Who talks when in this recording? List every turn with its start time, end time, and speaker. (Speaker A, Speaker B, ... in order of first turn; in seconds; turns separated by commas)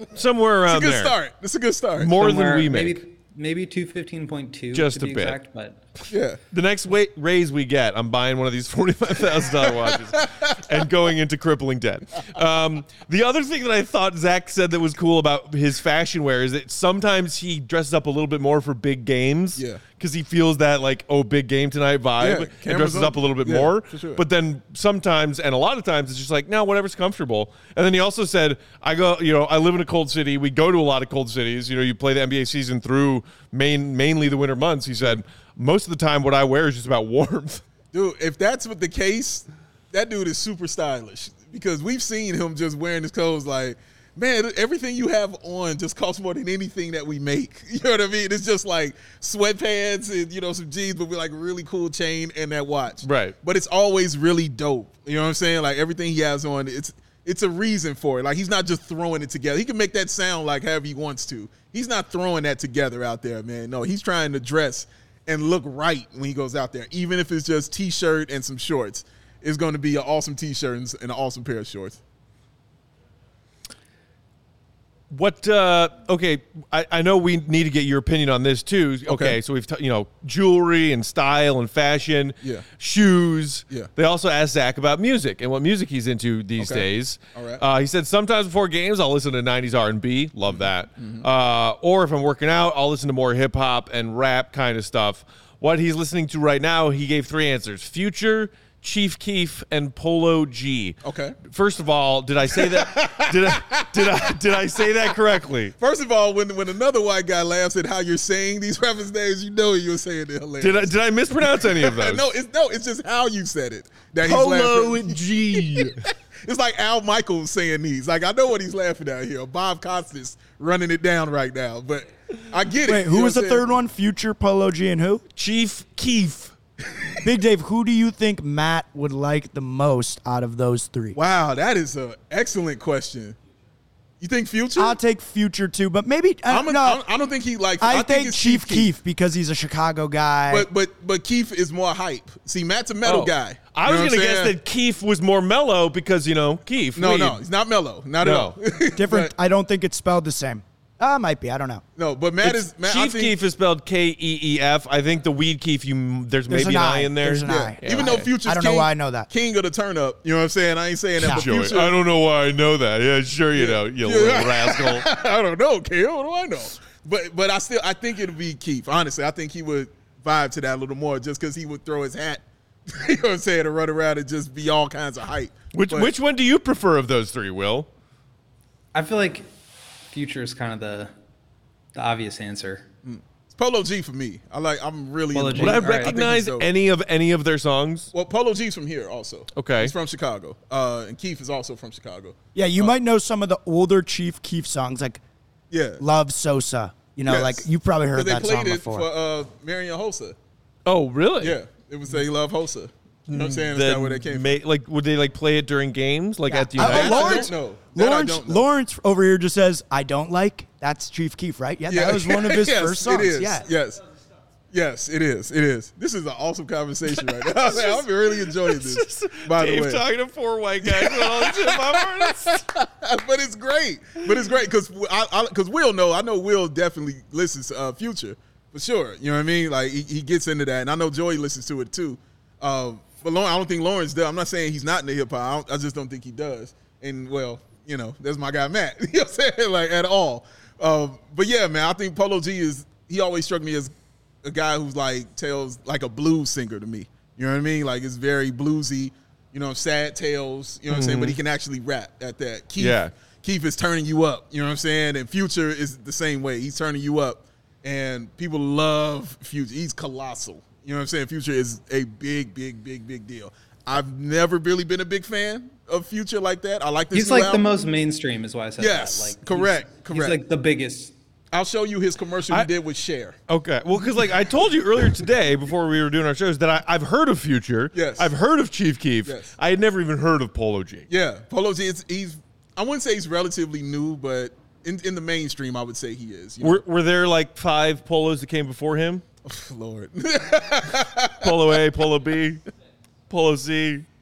Speaker A: 0.1-1.1, Speaker B: 0.7-2.1, Speaker A: 2.0-3.0, Speaker C: 2.2-5.8, Speaker A: 4.7-5.4, Speaker B: 6.1-6.4, Speaker A: 6.5-37.6, Speaker B: 9.4-10.6, Speaker B: 22.2-24.2, Speaker B: 37.9-72.0, Speaker A: 53.0-53.4, Speaker A: 75.1-105.7, Speaker B: 79.1-79.4, Speaker B: 86.6-87.6, Speaker B: 90.5-91.2, Speaker B: 101.0-101.4, Speaker B: 102.5-104.3, Speaker B: 105.8-123.7, Speaker A: 110.6-112.2, Speaker A: 114.2-116.0, Speaker D: 122.8-125.2, Speaker A: 125.3-126.5, Speaker D: 127.2-131.2, Speaker B: 131.1-133.4, Speaker B: 134.2-135.0, Speaker D: 134.8-137.0, Speaker B: 136.5-138.9, Speaker D: 137.8-140.7, Speaker B: 140.5-144.5, Speaker A: 143.0-147.4, Speaker B: 146.9-149.3, Speaker A: 148.2-148.6, Speaker D: 148.9-151.8, Speaker B: 152.0-153.3, Speaker A: 152.4-158.3, Speaker D: 156.5-159.3, Speaker B: 157.4-161.9, Speaker D: 161.2-161.4, Speaker A: 161.2-165.1, Speaker B: 163.6-176.1, Speaker A: 175.7-177.9, Speaker C: 178.9-179.5, Speaker C: 180.1-181.1, Speaker C: 181.9-182.8, Speaker B: 183.0-186.7, Speaker C: 185.3-186.2, Speaker A: 185.6-188.1, Speaker B: 188.1-192.9, Speaker A: 189.6-189.9, Speaker D: 192.5-195.2, Speaker B: 195.7-196.0, Speaker D: 196.0-199.1, Speaker B: 197.3-200.3, Speaker A: 200.8-201.6, Speaker B: 201.4-204.5, Speaker A: 203.3-207.5, Speaker D: 206.5-213.7, Speaker B: 206.8-208.6, Speaker B: 211.9-214.0, Speaker B: 214.7-220.0, Speaker A: 217.1-222.6, Speaker B: 220.8-243.9, Speaker B: 244.4-267.7, Speaker A: 250.9-251.4, Speaker A: 252.8-253.1, Speaker C: 267.1-271.1, Speaker B: 268.8-270.4, Speaker B: 271.5-273.4, Speaker A: 273.5-281.1, Speaker B: 277.9-278.3, Speaker B: 279.2-279.5, Speaker B: 281.1-286.8, Speaker A: 286.6-289.2, Speaker B: 289.4-291.8, Speaker A: 291.4-292.6, Speaker A: 293.3-294.1